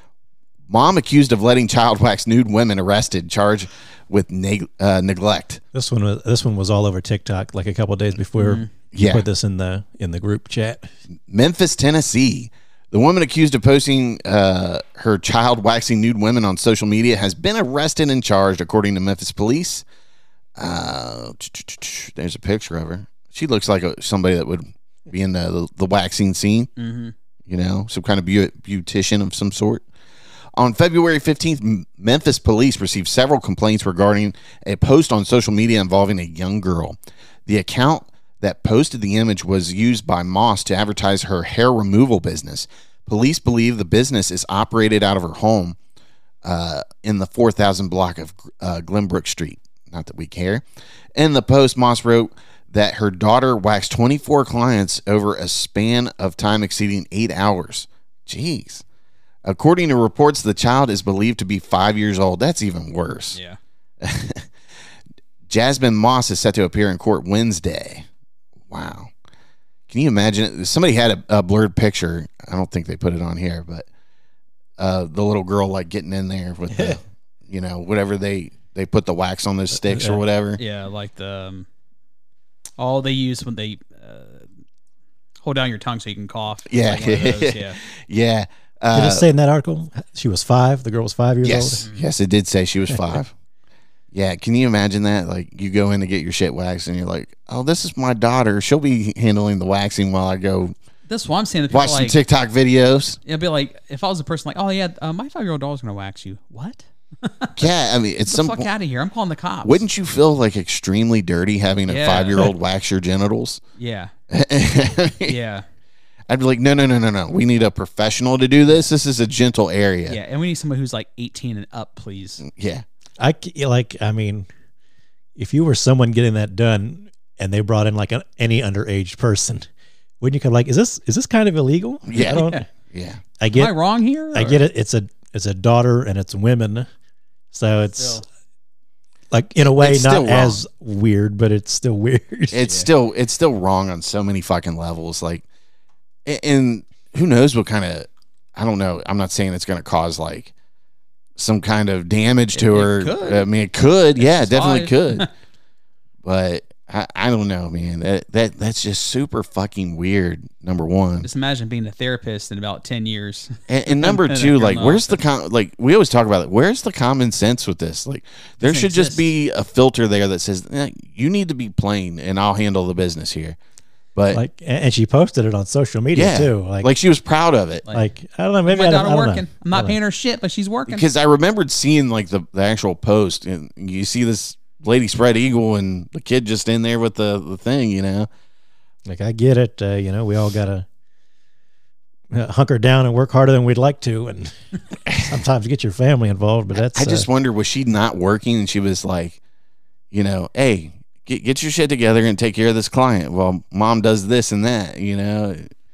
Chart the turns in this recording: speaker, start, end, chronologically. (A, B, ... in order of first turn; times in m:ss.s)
0:00.7-0:05.6 A
0:05.7-0:10.9 B
0:08.4-0:08.7 C
0:08.9-0:09.3 A
0:11.3-0:19.8 A
0:20.6-0:26.7 A
0:26.8-0:27.1 C
0:27.5-0:29.8 A
0:30.6-0:37.0 A
0:37.5-0:45.8 A
0:46.4-0:50.6 A
0:51.2-0:58.8 A
0:59.4-1:03.4 A
1:03.3-1:03.6 C
1:04.0-1:04.4 A
1:05.5-1:08.1 A
1:08.7-1:09.1 A
1:09.9-1:13.9 A
1:14.8-1:20.6 A
1:16.7-1:17.0 B
1:19.8-1:20.2 B
1:20.6-1:21.7 C
1:22.8-1:24.5 C
1:25.4-1:27.8 C
1:26.7-1:29.2 A
1:28.9-1:31.8 B
1:31.4-1:33.3 A
1:34.1-1:40.7 A
1:41.1-1:42.2 C
1:41.7-1:43.2 A
1:43.3-1:47.7 C
1:47.6-1:48.7 A
1:48.3-1:49.8 C
1:49.6-1:53.6 A
1:51.9-1:52.5 C
1:53.8-1:54.1 C
1:54.3-1:55.4 A
1:55.2-1:55.6 C
1:56.3-2:00.2 A
2:00.1-2:02.4 C
2:02.4-2:02.8 A
2:03.2-2:04.5 B
2:05.4-2:09.7 B
2:10.2-2:12.7 B
2:12.1-2:13.2 A
2:12.2-2:12.6 C
2:13.4-2:13.7 B
2:13.5-2:14.6 C
2:14.3-2:16.9 B
2:17.5-2:18.2 B
2:18.0-2:18.2 C
2:19.3-2:22.6 B
2:19.7-2:20.6 A
2:22.5-2:25.4 A
2:26.3-2:30.5 A
2:31.4-2:35.3 A
2:32.5-2:33.5 C
2:34.2-2:35.3 C
2:36.2-2:41.3 A
2:41.2-2:45.2 C
2:43.7-2:53.6 A
2:48.6-2:49.2 C
2:54.2-2:54.4 A
2:54.3-2:56.9 B
2:56.1-2:57.8 A
2:57.9-3:00.0 B
2:58.7-3:01.1 C
3:00.9-3:08.3 A
3:09.1-3:10.9 B
3:12.3-3:14.6 B
3:15.2-3:17.3 B
3:16.8-3:19.4 A
3:20.1-3:25.7 A